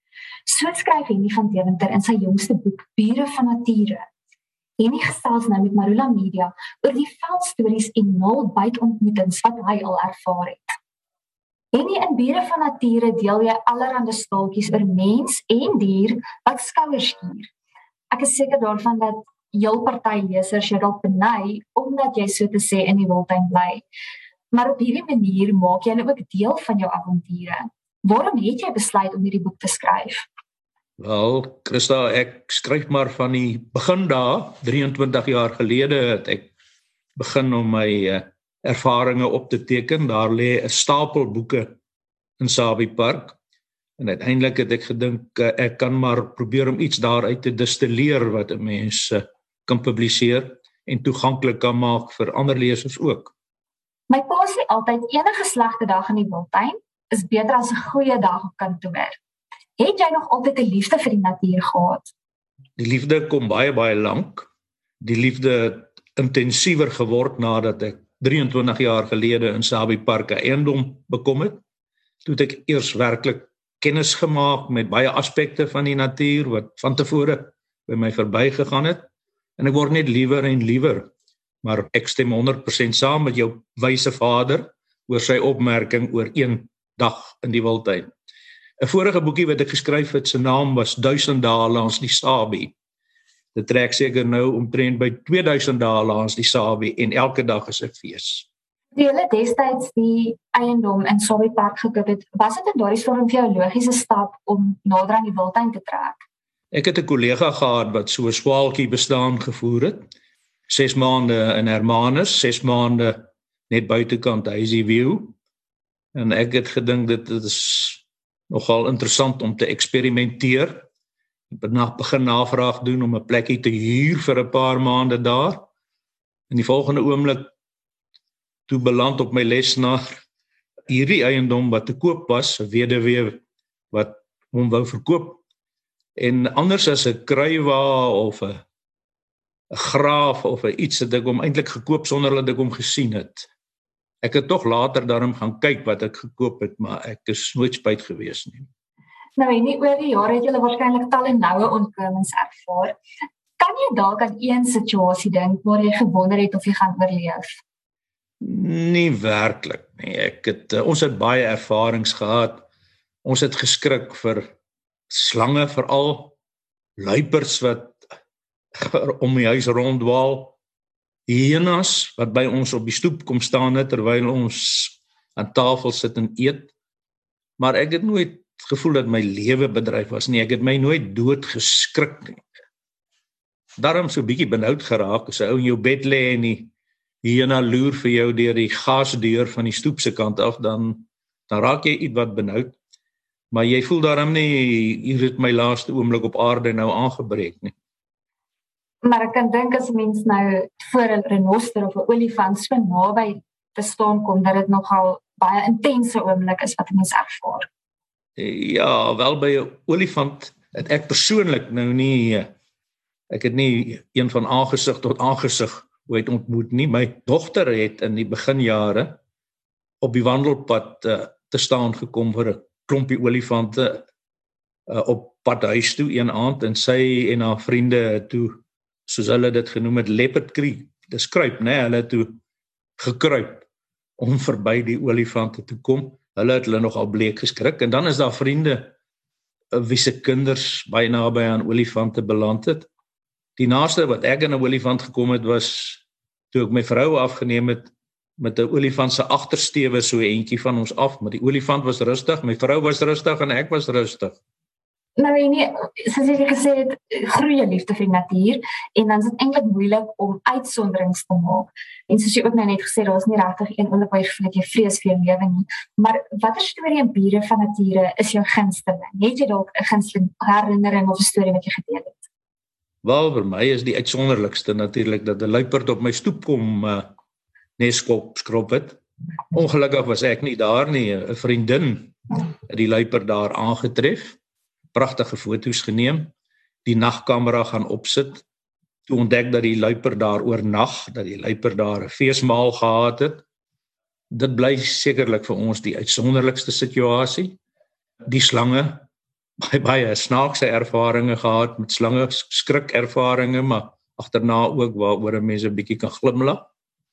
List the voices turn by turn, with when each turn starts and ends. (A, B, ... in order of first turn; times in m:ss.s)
0:00.5-0:04.1 A
0:04.8-0:10.7 A
0:11.7-0:17.5 A
0:18.1-0:23.8 A
0:24.5-0:30.2 A
0:31.0-0:36.5 B
0:37.2-0:41.7 B
0:42.4-0:43.4 B
0:44.0-0:53.3 B
0:54.1-0:59.2 A
0:59.8-1:02.1 A
1:02.8-1:04.5 B
1:05.0-1:11.6 B
1:12.2-1:19.0 B
1:19.6-1:21.1 B
1:21.6-1:28.1 B
1:28.8-1:32.7 B
1:33.5-1:38.5 B
1:38.9-1:46.2 A
1:46.7-1:50.0 B
1:50.7-1:53.2 B
1:53.7-1:55.4 B
1:56.1-2:00.8 B
2:01.5-2:05.7 B
2:06.5-2:07.5 B
2:08.7-2:10.2 B
2:10.9-2:13.4 B
2:13.9-2:15.4 B
2:16.2-2:18.6 B
2:19.7-2:23.5 B
2:24.2-2:28.7 B
2:29.4-2:33.0 A
2:33.6-2:37.6 A
2:38.4-2:42.6 B
2:43.2-2:44.4 B
2:45.1-2:46.4 B
2:47.0-2:48.0 B
2:48.8-2:50.6 B
2:51.3-2:56.7 B
2:57.6-3:02.4 B
3:03.8-3:06.7 B
3:07.2-3:12.8 B
3:13.5-3:17.7 B
3:19.0-3:27.7 A
3:28.4-3:32.5 B
3:33.3-3:39.2 B
3:40.0-3:44.0 B
3:44.9-3:52.4 B
3:53.0-3:53.7 B
3:54.2-3:58.9 B
3:59.7-4:02.9 B
4:03.6-4:14.4 B
4:15.2-4:32.3 A
4:33.0-4:37.1 B
4:37.8-4:39.0 B
4:39.5-4:42.2 B
4:42.7-4:44.4 B
4:44.9-4:46.3 B
4:46.8-4:48.4 B
4:49.0-4:53.4 B
4:54.3-4:57.6 B
4:58.3-4:59.0 B
4:59.6-5:06.6 B